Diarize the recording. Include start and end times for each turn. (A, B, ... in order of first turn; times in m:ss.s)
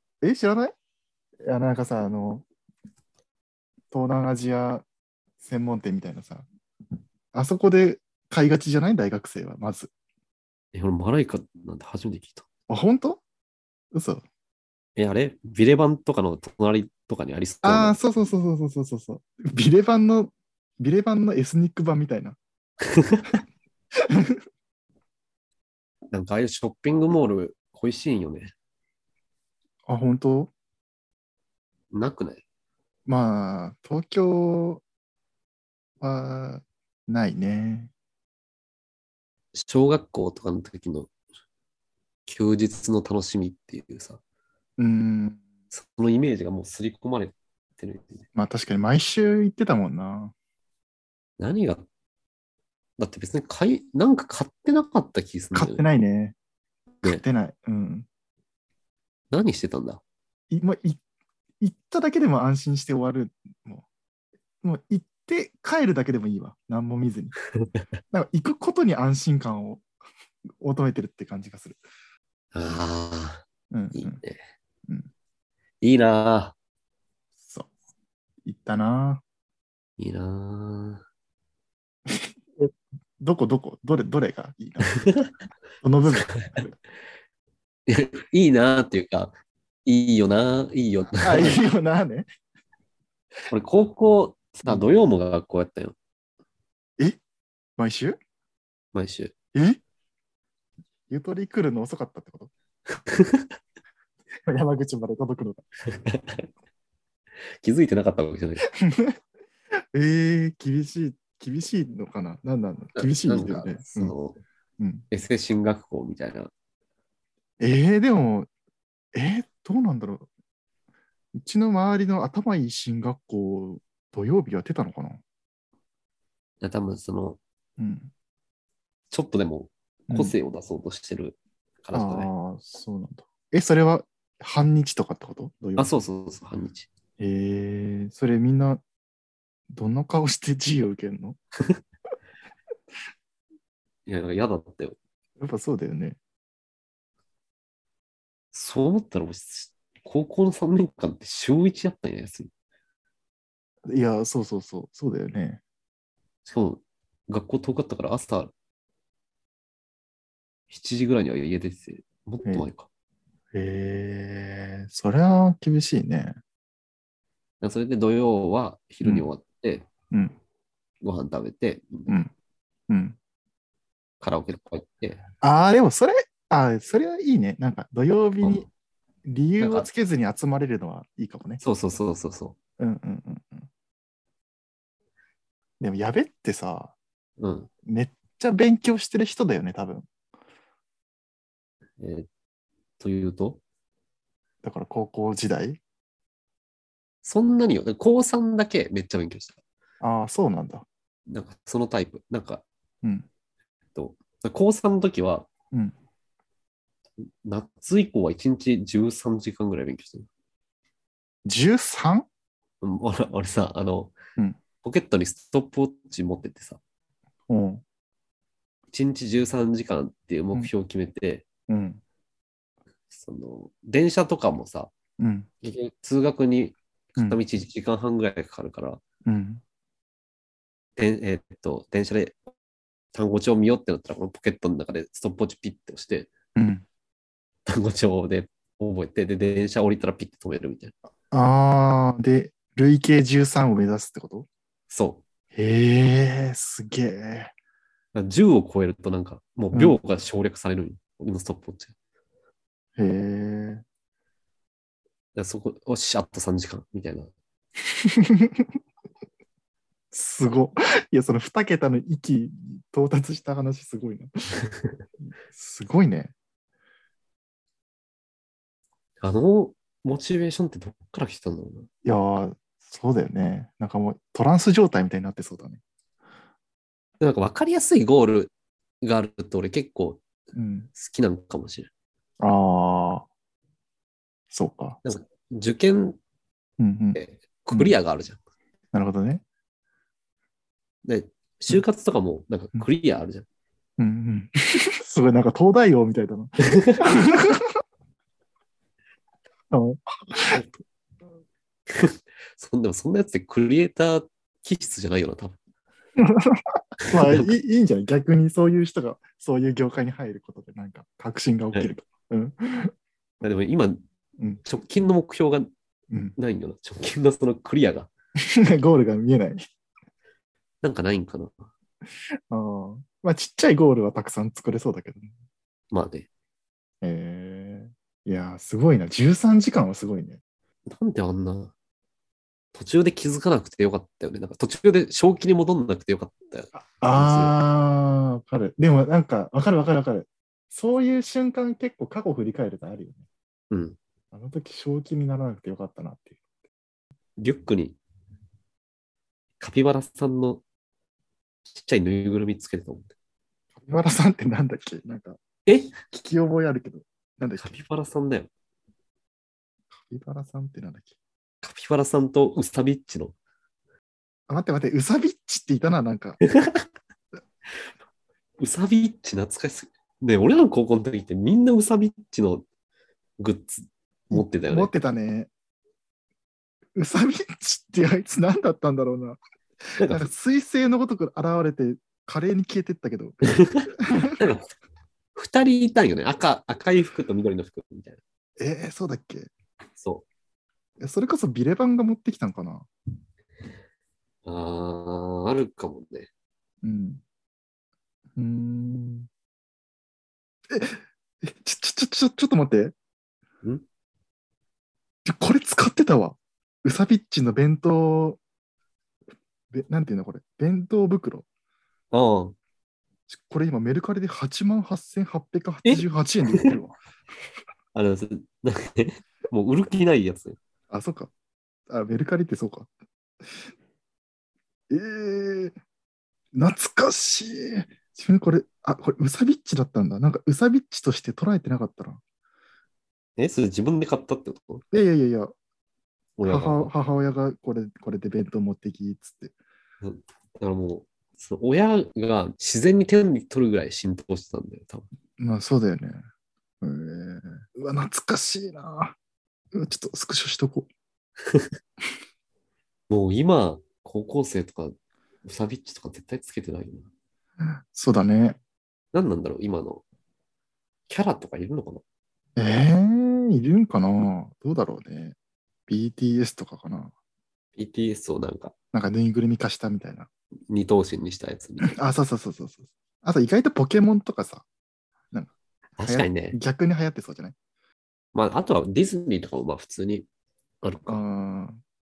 0:00.2-0:00.7 A
0:01.4-0:02.4 A
0:03.9-0:04.8 A
0:05.4-0:06.5 A
0:07.3-0:09.9 A
0:10.7-0:12.4 B
0:12.7-0:13.2 A
0:13.9-0:14.2 A
0:15.0-0:18.0 B
0:17.6-0:22.4 A
0:22.8-0:23.3 B
0:24.0-0:24.4 A
0:26.1-0:28.5 B
0:29.9-0:30.5 A
0:31.9-0:32.4 B
0:33.1-0:34.8 A
0:36.0-0:37.9 A
0:39.5-0:41.1 B
0:42.2-0:44.2 B
0:44.8-0:45.4 A
0:45.7-0:48.2 B
0:48.3-0:50.3 A
0:51.4-0:51.8 B
0:53.0-0:55.8 B
0:55.5-0:56.3 A
0:57.0-0:58.1 A
0:59.3-1:00.0 B
1:00.5-1:01.0 A
1:01.6-1:03.8 A
1:04.6-1:07.3 A
1:08.1-1:09.8 A
1:10.6-1:11.8 A
1:12.5-1:14.4 B
1:13.7-1:14.2 A
1:15.8-1:16.5 B
1:17.4-1:17.7 A
1:18.4-1:19.2 A
1:20.0-1:21.0 B
1:22.1-1:25.0 A
1:25.8-1:26.7 A
1:26.1-1:26.6 B
1:27.9-1:29.3 B
1:29.8-1:31.6 B
1:31.1-1:32.3 A
1:33.5-1:36.0 B
1:37.8-1:38.2 A
1:38.9-1:39.3 B
1:39.5-1:39.8 A
1:41.1-1:42.5 A
1:43.0-1:43.6 B
1:44.4-1:45.6 A
1:45.9-1:46.5 B
1:47.6-1:48.7 B
1:48.7-1:49.2 A
1:49.9-1:54.1 A
1:53.0-1:54.4 B
1:54.8-1:55.0 A
1:55.1-1:56.5 B
1:57.6-1:58.5 A
1:59.1-2:00.3 A
2:01.3-2:05.2 A
2:06.6-2:07.4 B
2:07.8-2:08.1 A
2:09.1-2:12.3 B
2:10.1-2:10.3 A
2:11.9-2:15.9 A
2:15.8-2:16.9 B
2:17.2-2:18.8 A
2:19.7-2:21.4 A
2:24.0-2:25.0 B
2:25.4-2:26.2 A
2:28.5-2:32.5 B
2:33.9-2:35.6 A
2:36.4-2:38.5 B
2:40.7-2:42.9 B
2:43.5-2:46.4 A
2:47.6-2:49.9 B
2:50.1-2:50.4 A
2:51.0-2:52.2 B
2:52.9-2:53.2 A
2:54.2-2:55.2 B
2:55.4-2:58.7 A
2:58.4-2:58.7 B
2:59.2-3:01.6 A
2:59.6-2:59.9 B
3:01.6-3:02.6 B
3:02.8-3:03.7 A
3:05.8-3:06.9 A
3:07.4-3:07.7 B
3:07.8-3:10.1 A
3:12.0-3:12.3 B
3:13.0-3:13.6 B
3:14.6-3:15.8 A
3:17.2-3:19.6 B
3:20.0-3:20.8 A
3:21.3-3:22.6 B
3:23.9-3:25.5 B
3:27.2-3:30.3 B
3:31.4-3:32.3 A
3:32.8-3:34.1 B
3:34.8-3:36.8 B
3:37.5-3:37.8 A
3:38.9-3:41.4 B
3:41.7-3:42.0 A
3:43.1-3:44.9 B
3:45.2-3:45.5 A
3:45.6-3:49.0 B
3:49.2-3:49.6 A
3:51.0-3:52.4 B
3:53.1-3:56.3 B
3:56.6-3:56.8 A
3:57.7-4:00.9 B
4:01.3-4:04.5 A
4:04.9-4:05.2 B
4:05.5-4:07.5 A
4:08.1-4:11.9 B
4:13.0-4:13.8 A
4:15.3-4:17.3 B
4:17.9-4:18.7 A
4:20.1-4:24.3 A
4:24.7-4:25.0 B
4:25.2-4:26.3 A
4:29.2-4:31.9 B
4:32.0-4:35.8 A
4:37.2-4:40.2 B
4:40.5-4:40.9 A
4:40.9-4:41.9 B
4:42.4-4:43.2 A
4:44.5-4:45.0 A
4:45.0-4:46.2 B
4:46.8-4:47.2 A
4:47.1-4:48.4 B
4:48.9-4:49.4 A
4:51.0-4:53.4 B
4:54.0-4:57.7 A
4:56.6-4:57.1 B
4:59.7-5:00.6 A
5:01.9-5:05.6 B
5:06.2-5:12.9 A
5:07.0-5:07.5 B
5:13.4-5:14.0 B
5:14.6-5:15.7 B
5:16.4-5:18.1 B
5:18.5-5:19.6 A
5:20.8-5:21.7 B
5:22.5-5:25.3 A
5:25.9-5:26.3 B
5:27.0-5:30.4 A
5:30.8-5:31.7 B
5:32.7-5:37.5 B
5:36.7-5:43.2 A
5:43.7-5:44.0 B
5:44.3-5:46.4 A
5:47.4-5:48.0 B
5:49.6-5:50.6 B
5:51.7-5:53.1 B
5:53.8-5:55.4 A
5:55.6-5:55.9 B
5:56.0-5:57.8 A
5:57.6-5:58.5 B
5:59.9-6:01.1 A
6:01.6-6:03.3 B
6:04.5-6:06.4 A
6:06.4-6:06.8 B
6:08.6-6:12.6 B
6:13.4-6:14.9 B
6:14.3-6:15.5 A
6:17.0-6:19.4 A
6:20.0-6:20.3 B
6:20.0-6:23.4 A
6:23.5-6:24.7 B
6:24.0-6:24.4 A
6:25.4-6:28.2 B
6:28.6-6:29.5 A
6:30.0-6:30.2 B
6:31.0-6:32.9 A
6:34.4-6:36.3 B
6:36.8-6:37.2 A
6:38.4-6:39.3 A
6:40.7-6:42.9 A
6:45.2-6:48.4 A
6:49.7-6:51.4 A
6:52.1-6:52.5 B
6:53.3-6:57.0 A
6:55.8-6:56.7 B
6:57.9-7:00.6 B
7:00.9-7:01.3 A
7:01.9-7:02.9 A
7:04.9-7:05.7 A
7:06.5-7:12.2 A
7:13.4-7:14.8 B
7:14.9-7:15.5 A
7:16.4-7:16.9 B
7:16.4-7:19.5 A
7:20.0-7:25.0 B
7:25.4-7:26.2 A
7:26.8-7:29.2 A
7:29.7-7:30.9 A
7:33.1-7:37.1 B
7:37.6-7:38.6 A
7:39.1-7:40.0 B
7:41.1-7:42.0 B
7:42.6-7:45.4 A
7:45.9-7:47.1 A
7:47.8-7:48.7 B
7:48.9-7:50.3 A
7:50.7-7:51.9 B
7:51.8-7:54.6 A
7:55.3-7:57.5 A
7:56.0-7:56.6 B
7:58.3-8:00.3 B
8:00.8-8:01.2 B
8:01.1-8:01.8 A